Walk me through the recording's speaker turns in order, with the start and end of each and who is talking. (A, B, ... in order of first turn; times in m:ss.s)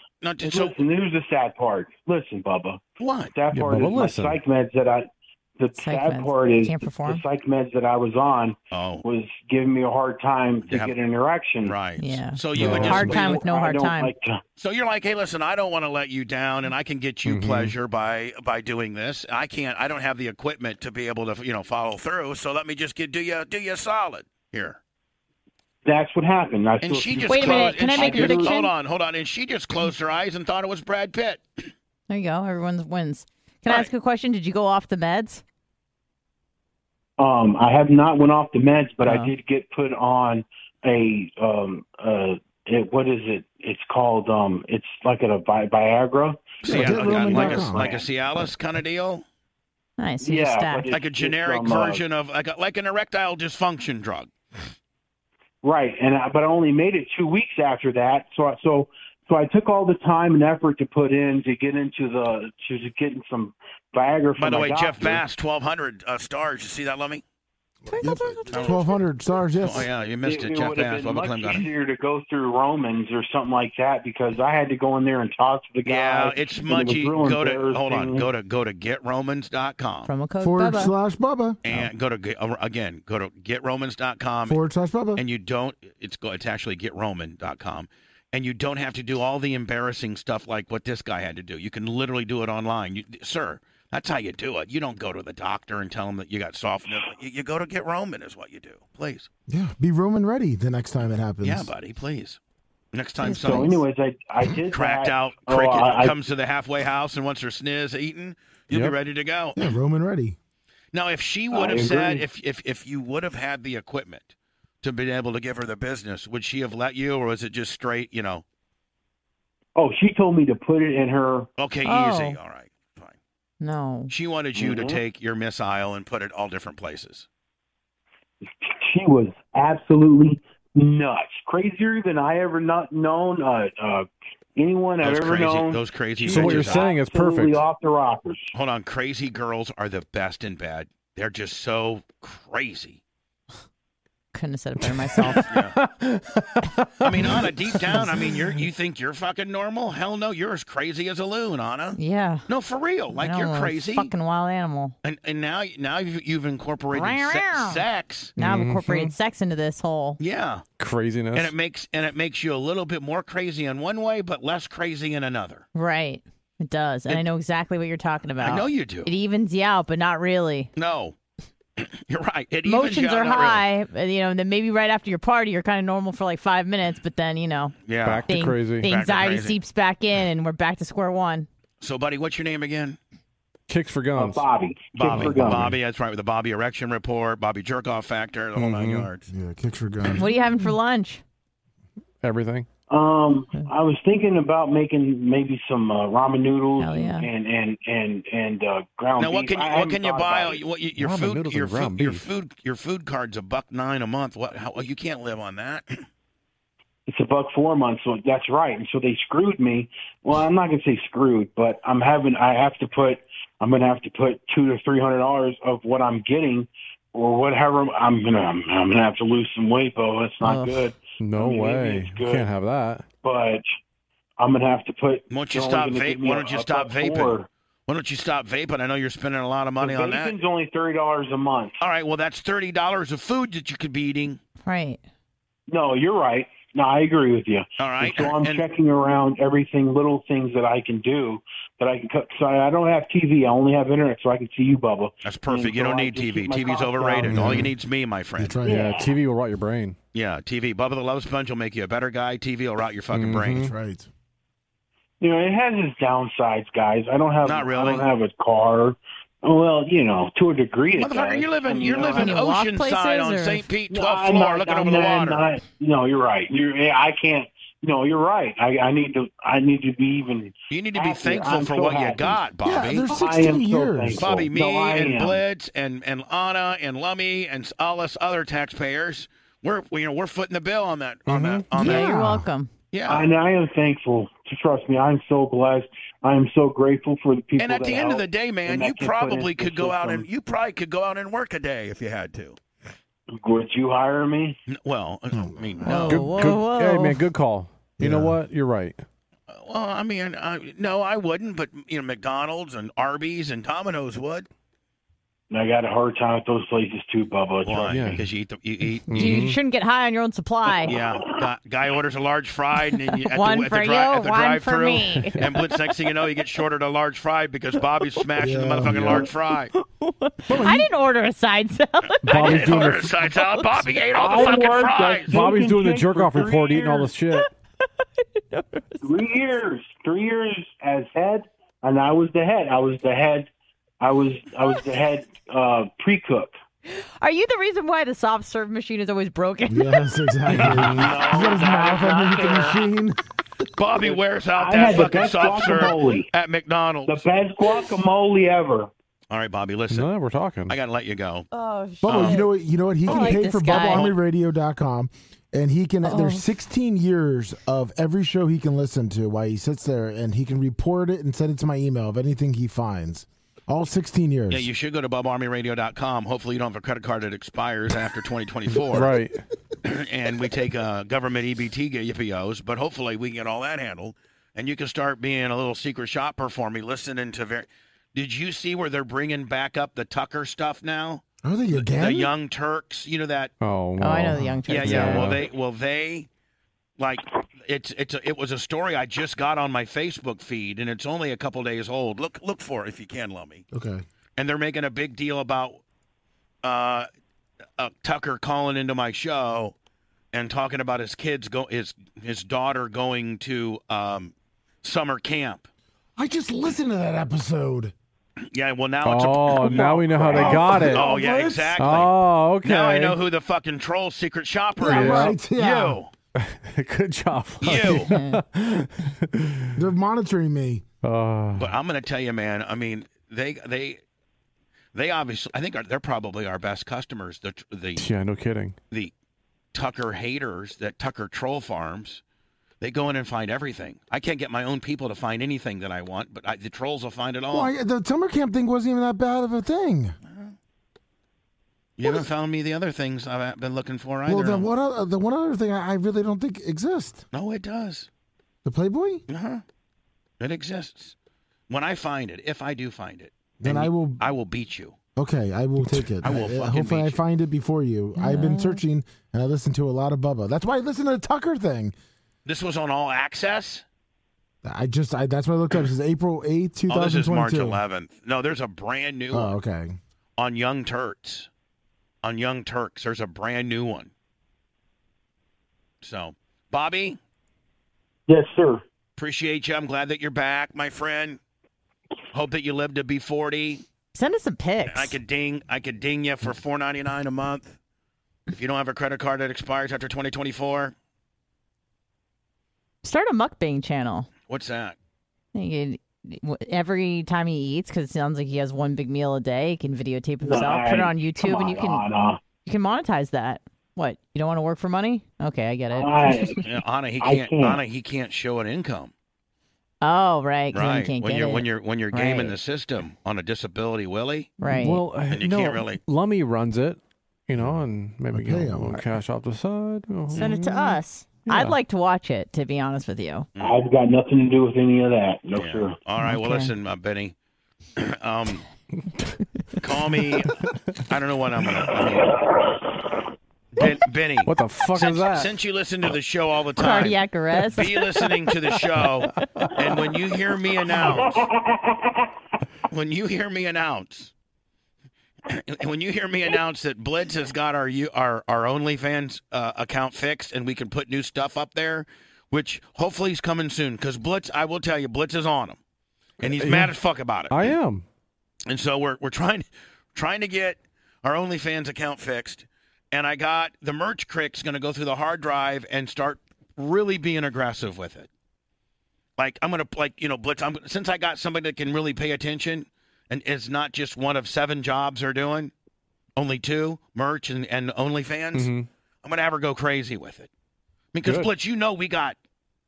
0:00.2-0:00.8 A
0:00.4-0:02.8 B
0:03.0-0:03.3 A
0:03.3-0:11.8 B
0:03.5-0:04.4 C
0:05.8-0:07.2 D
0:08.7-0:09.0 A
0:10.6-0:11.0 A
0:11.6-0:13.4 A
0:12.0-0:14.1 D
0:12.5-0:13.2 C
0:12.7-0:14.4 B
0:14.6-0:24.8 A
0:17.2-0:17.8 C
0:25.8-0:28.5 B
0:26.8-0:31.4 A
0:27.3-0:28.7 D
0:32.1-0:35.4 D
0:37.2-0:48.0 B
0:39.0-0:39.3 D
0:46.6-0:49.2 A
0:46.7-0:48.0 E
0:50.0-0:50.9 D
0:50.2-0:52.0 B
0:50.9-0:54.3 A
0:55.6-1:05.2 B
1:04.4-1:07.2 A
1:07.9-1:09.0 D
1:07.9-1:09.9 E
1:08.5-1:08.8 A
1:09.6-1:11.7 A
1:10.2-1:18.3 B
1:15.8-1:20.1 A
1:20.1-1:20.9 D
1:20.4-1:21.9 E
1:21.6-1:24.6 A
1:24.5-1:25.2 E
1:25.2-1:39.3 A
1:39.5-1:41.7 E
1:41.4-1:42.4 A
1:42.9-1:43.8 A
1:43.3-1:46.2 B
1:44.7-1:49.7 A
1:48.7-1:49.0 C
1:49.6-1:50.4 E
1:50.9-1:54.3 A
1:51.5-1:52.2 B
1:54.8-1:58.4 A
1:59.8-2:01.5 B
2:01.6-2:03.1 A
2:01.8-2:02.4 D
2:03.6-2:04.1 D
2:04.1-2:07.3 A
2:04.6-2:05.0 B
2:08.6-2:18.5 B
2:15.0-2:16.9 A
2:16.2-2:17.6 C
2:18.5-2:23.0 A
2:24.3-2:25.5 D
2:25.2-2:25.8 A
2:25.5-2:28.5 C
2:27.0-2:34.1 A
2:32.0-2:32.5 D
2:33.1-2:35.0 D
2:35.0-2:38.3 A
2:36.9-2:37.8 D
2:38.4-2:39.1 C
2:38.4-2:40.2 D
2:40.2-2:40.6 A
2:40.8-2:41.5 C
2:41.3-2:45.6 A
2:45.8-2:50.7 D
2:48.4-2:49.1 A
2:50.8-2:51.2 A
2:51.8-2:53.6 A
2:52.6-3:01.5 D
2:57.9-2:59.6 A
2:58.0-2:58.9 C
3:01.8-3:03.0 A
3:03.7-3:04.4 C
3:04.1-3:05.7 B
3:04.9-3:09.3 A
3:05.0-3:05.8 C
3:08.6-3:09.1 C
3:09.3-3:10.3 E
3:10.2-3:11.2 D
3:12.2-3:12.7 C
3:12.9-3:20.6 B
3:16.8-3:17.3 D
3:19.2-3:26.0 A
3:21.0-3:22.3 C
3:27.1-3:42.5 B
3:40.4-3:40.9 D
3:41.2-3:43.1 C
3:43.2-3:43.6 B
3:44.4-3:47.5 B
3:45.3-3:50.3 A
3:49.8-3:51.8 B
3:51.8-3:54.4 A
3:54.6-3:55.0 D
3:55.7-4:07.4 B
3:57.8-3:58.6 A
4:05.2-4:08.6 A
4:07.2-4:07.7 C
4:07.3-4:07.7 E
4:08.4-4:09.0 E
4:08.7-4:10.0 C
4:08.7-4:09.1 B
4:10.1-4:13.7 A
4:13.1-4:13.7 C
4:13.5-4:14.1 E
4:15.2-4:22.4 B
4:17.4-4:18.1 A
4:21.0-4:25.4 A
4:21.9-4:23.7 D
4:23.9-4:32.4 B
4:30.7-4:33.2 A
4:32.6-4:34.5 E
4:33.0-4:35.4 B
4:34.2-4:42.2 A
4:41.3-4:42.5 E
4:41.8-4:42.7 D
4:42.9-4:43.3 A
4:43.1-4:50.3 B
4:47.6-4:52.6 A
4:53.4-4:54.6 B
4:54.7-4:56.3 A
4:55.3-4:56.2 E
4:55.9-4:57.2 D
4:55.9-4:59.0 C
4:58.0-4:58.4 E
4:59.5-5:04.5 A
5:05.5-5:08.2 B
5:07.6-5:09.5 A
5:07.9-5:08.2 C
5:09.1-5:09.6 C
5:09.2-5:10.9 D
5:10.9-5:19.7 A
5:13.1-5:15.6 D
5:18.4-5:19.3 E
5:18.9-5:19.2 C
5:19.7-5:24.6 D
5:20.5-5:20.9 E
5:22.2-5:23.2 C
5:22.3-5:25.4 A
5:24.2-5:27.1 B
5:25.3-5:27.5 C
5:28.4-5:29.0 D
5:29.0-5:33.5 B
5:34.0-5:36.5 B
5:36.9-5:40.1 D
5:39.7-5:43.2 E
5:40.5-5:42.9 A
5:40.6-5:41.1 C
5:41.5-5:42.1 B
5:43.8-5:47.2 A
5:44.1-5:46.3 B
5:47.1-5:48.9 B
5:49.3-5:50.1 A
5:49.9-5:50.7 C
5:50.7-5:51.5 A
5:51.5-5:52.5 D
5:52.0-6:04.7 E
5:52.0-5:52.4 A
5:53.0-5:54.1 D
5:53.1-5:54.2 A
5:56.0-5:56.4 D
6:04.5-6:09.1 A
6:08.9-6:09.4 C
6:09.8-6:23.5 A
6:21.4-6:22.3 E
6:23.6-6:25.5 C
6:24.0-6:25.4 D
6:24.4-6:25.2 E
6:24.7-6:26.3 A
6:27.0-6:33.7 A
6:33.7-6:34.0 E
6:34.4-6:35.8 A
6:36.6-6:37.1 A
6:37.8-6:39.7 A
6:40.3-6:45.7 A
6:46.2-6:47.9 E
6:48.5-6:56.1 A
6:49.0-6:51.2 C
6:49.6-6:51.8 E
6:51.8-6:53.2 C
6:54.8-6:56.0 E
6:54.8-6:55.4 C
6:56.4-6:59.8 C
6:57.6-6:58.1 A
6:58.1-6:58.4 D
6:59.8-7:00.9 E
7:01.0-7:01.7 C
7:01.6-7:04.0 A
7:04.9-7:08.1 A
7:08.0-7:08.8 C
7:09.7-7:12.2 A
7:12.8-7:17.7 A
7:17.5-7:20.2 E
7:20.2-7:20.6 A
7:22.0-7:24.7 A
7:24.3-7:27.2 E
7:27.3-7:28.1 A
7:28.6-7:29.2 E
7:29.3-7:29.6 A
7:30.4-7:31.2 A
7:31.7-7:35.0 A
7:33.6-7:34.2 E
7:35.2-7:41.9 E
7:36.2-7:37.2 A
7:38.2-7:38.8 D
7:42.4-7:43.8 A
7:44.6-7:47.8 E
7:46.9-7:49.6 A
7:49.3-7:50.0 E
7:50.4-7:51.5 A
7:52.2-7:54.1 A
7:56.0-7:57.2 A
7:58.3-7:58.8 B
7:59.2-8:01.4 A
8:02.3-8:03.8 A
8:04.1-8:05.2 D
8:04.9-8:07.8 A
8:08.6-8:11.0 A
8:13.0-8:14.3 D
8:14.5-8:15.0 A
8:15.6-8:22.0 D
8:20.4-8:22.4 B
8:22.6-8:26.6 D
8:25.9-8:26.6 B
8:26.6-8:29.1 A
8:27.2-8:27.8 B
8:30.0-8:32.6 D
8:30.7-8:34.5 A
8:34.6-8:35.0 D
8:34.6-8:41.8 C
8:35.3-8:36.0 A
8:37.6-8:39.0 E
8:40.3-8:43.5 D
8:43.6-8:46.0 B
8:45.6-8:47.4 A
8:46.2-8:46.7 D
8:48.0-8:48.7 A
8:49.8-8:52.4 A
8:53.8-9:01.5 A
8:54.4-8:55.5 C
8:56.8-8:58.3 D
9:01.1-9:01.8 B
9:02.9-9:04.3 A
9:05.5-9:15.8 A
9:16.4-9:17.8 A
9:16.4-9:17.0 C
9:17.5-9:18.0 C
9:18.7-9:28.3 A
9:29.4-9:35.7 A
9:36.4-9:40.5 A
9:38.5-9:38.9 C
9:41.1-9:42.4 A
9:41.2-9:41.5 C